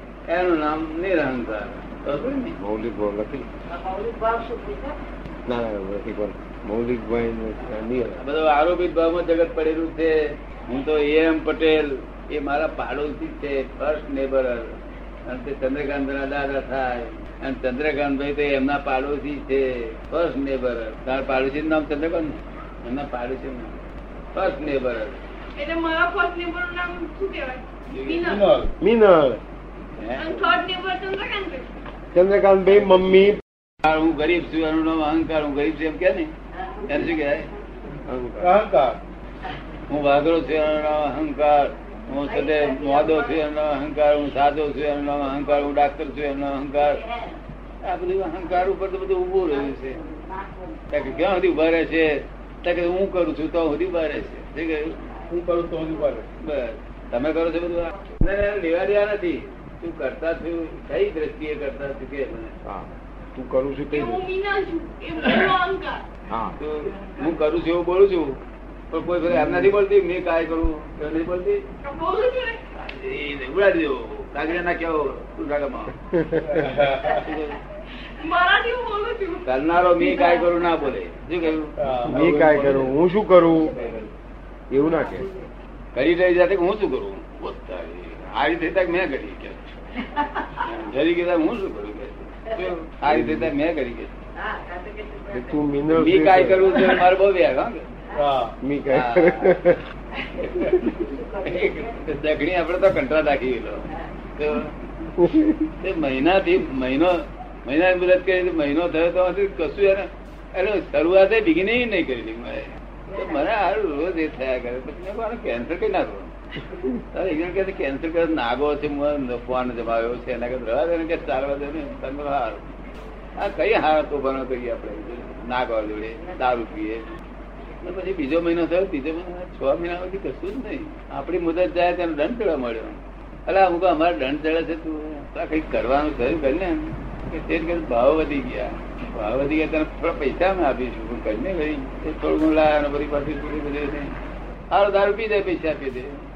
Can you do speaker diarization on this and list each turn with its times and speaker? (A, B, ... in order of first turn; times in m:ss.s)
0:00.3-0:02.6 A
0:02.6-0:03.5 B
0:03.7-0:05.0 C
0:05.5-0:08.2 B
0:08.2-0:23.8 A
0:24.3-0:25.2 A
0:25.6-0:28.5 D
0:27.9-0:28.3 A
0:28.2-0:28.7 E
0:28.8-0:29.4 B
0:30.0-0:30.4 A
0:30.2-0:31.7 D
0:32.1-0:33.4 B
0:33.8-0:36.3 A
0:36.8-0:37.5 A
0:38.0-0:38.5 B
0:38.4-0:39.0 E
0:39.9-0:47.0 A
0:47.8-0:50.0 A
0:50.9-0:55.1 A
0:55.3-0:56.2 E
0:56.4-1:02.6 A
1:02.6-1:04.2 B
1:03.9-1:06.0 D
1:06.3-1:06.6 B
1:06.6-1:11.6 A
1:11.8-1:12.6 D
1:12.7-1:16.0 A
1:16.1-1:16.8 B
1:16.3-1:17.2 E
1:17.0-1:17.6 A
1:18.2-1:20.5 D
1:19.4-1:21.8 A
1:21.8-1:22.9 E
1:22.0-1:23.8 B
1:23.6-1:24.1 E
1:24.7-1:25.3 B
1:25.9-1:29.7 A
1:30.5-1:34.2 A
1:33.1-1:33.5 B
1:34.5-1:35.2 C
1:35.3-1:36.8 B
1:35.9-1:37.8 A
1:38.1-1:38.6 E
1:38.6-1:39.8 B
1:38.9-1:39.6 A
1:40.6-1:41.0 B
1:41.0-1:44.7 A
1:45.2-1:45.7 B
1:45.8-1:56.3 A
1:57.1-2:02.7 A
2:03.4-2:07.1 A
2:07.8-2:24.1 A
2:24.7-2:26.3 A